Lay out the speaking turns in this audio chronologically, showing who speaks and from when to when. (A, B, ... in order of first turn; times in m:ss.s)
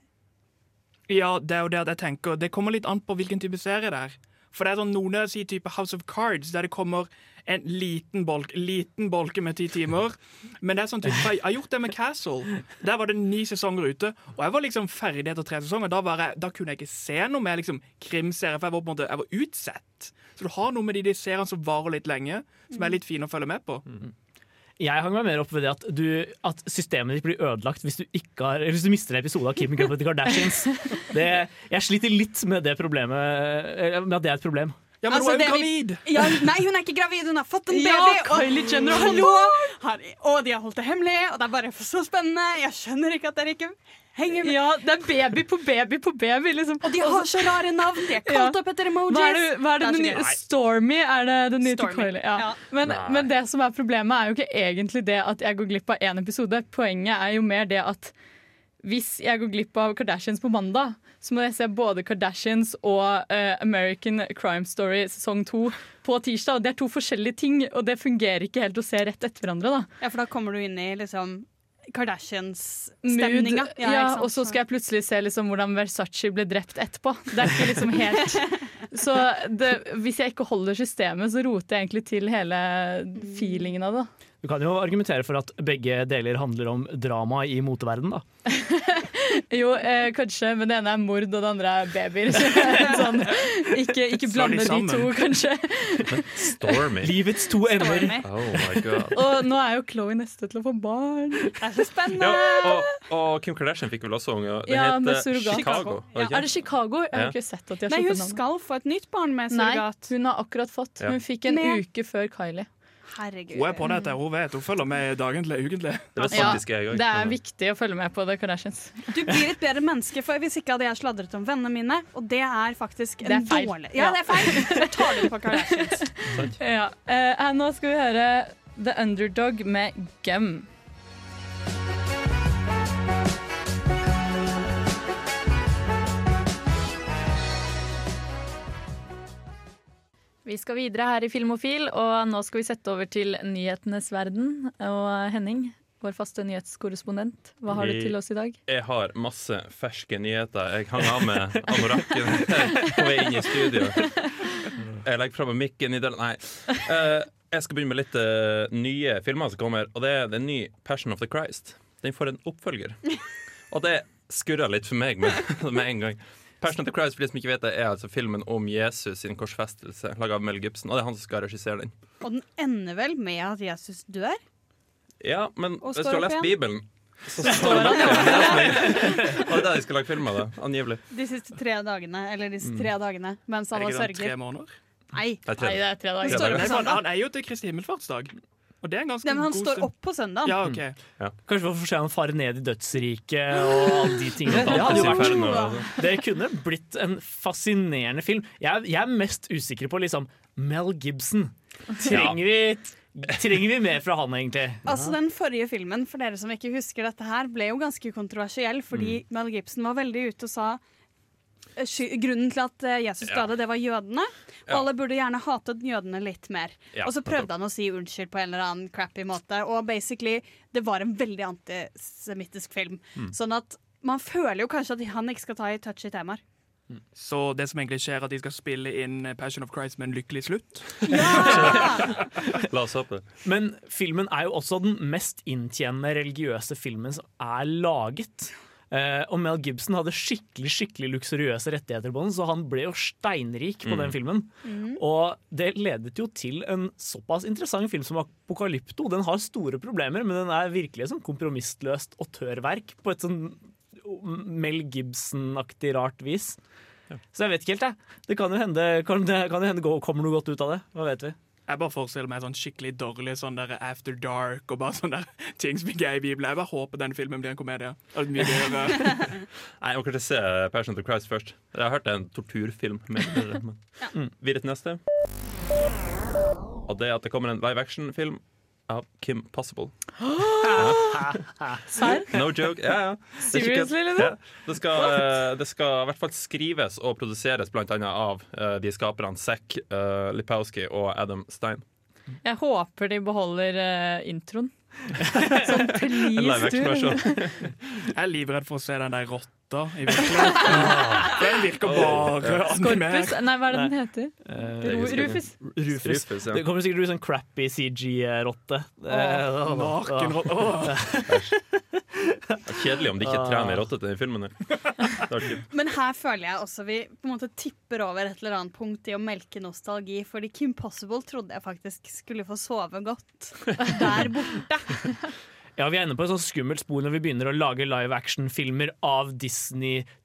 0:01.1-0:23.8 A
0:24.8-0:34.8 B
0:35.0-0:36.3 A
0:35.1-0:44.6 C
0:37.7-0:39.7 D
0:44.4-0:58.1 D
0:46.8-0:50.4 C
0:51.6-0:52.6 C
0:52.8-0:53.3 E
0:58.8-1:09.9 D
1:10.0-1:14.6 C
1:13.0-1:24.1 D
1:23.2-1:23.7 C
1:24.4-1:28.2 B
1:28.5-1:36.5 D
1:34.2-1:35.2 A
1:36.1-1:37.2 E
1:37.0-1:38.6 B
1:37.7-1:38.6 C
1:38.2-1:39.2 E
1:39.1-1:41.6 D
1:41.6-1:42.8 C
1:42.2-1:47.4 E
1:42.3-1:42.8 D
1:44.7-1:48.4 D
1:45.5-1:46.4 C
1:47.9-1:50.1 C
1:49.5-1:52.7 D
1:51.5-1:51.8 C
1:53.1-1:54.1 C
1:53.5-1:56.6 A
1:56.2-1:57.4 E
1:56.3-1:59.1 D
1:59.1-2:06.3 C
2:03.2-2:05.2 D
2:06.2-2:10.7 D
2:20.4-2:28.6 D
2:27.7-2:34.2 E
2:31.8-2:32.6 B
2:35.0-2:51.9 E
2:52.2-2:54.4 C
2:55.2-3:01.0 E
2:55.8-2:56.7 C
2:57.4-2:59.4 C
2:57.5-2:58.9 D
2:58.9-2:59.3 B
3:01.1-3:04.6 C
3:03.7-3:04.7 A
3:05.1-3:07.1 C
3:05.5-3:06.7 E
3:05.6-3:06.7 D
3:06.3-3:11.0 A
3:09.2-3:10.6 C
3:10.7-3:11.4 E
3:11.5-3:24.9 B
3:14.5-3:15.9 E
3:14.5-3:16.0 C
3:22.1-3:22.4 E
3:24.8-3:30.8 C
3:28.9-3:29.2 E
3:31.8-3:46.4 C
3:36.9-3:37.5 E
3:47.2-3:52.0 A
3:51.1-3:52.1 C
3:52.7-3:53.3 E
3:53.4-4:16.6 B
4:03.8-4:04.1 E
4:04.6-4:05.0 C
4:17.3-4:21.4 B
4:21.7-4:29.4 A
4:29.8-4:35.0 E
4:36.9-4:41.4 E
4:40.5-4:40.8 D
4:41.9-4:42.3 D
4:42.3-4:51.8 E
4:43.5-4:44.4 D
4:52.4-4:57.4 D
4:56.4-4:57.7 E
4:58.1-5:03.6 A
5:00.7-5:01.3 E
5:01.8-5:02.6 E
5:02.8-5:05.5 D
5:03.7-5:11.8 B
5:04.8-5:06.7 E
5:09.3-5:11.1 A
5:11.3-5:11.6 E
5:12.7-5:15.6 E
5:13.2-5:13.9 B
5:15.7-5:25.2 C
5:25.8-5:30.1 B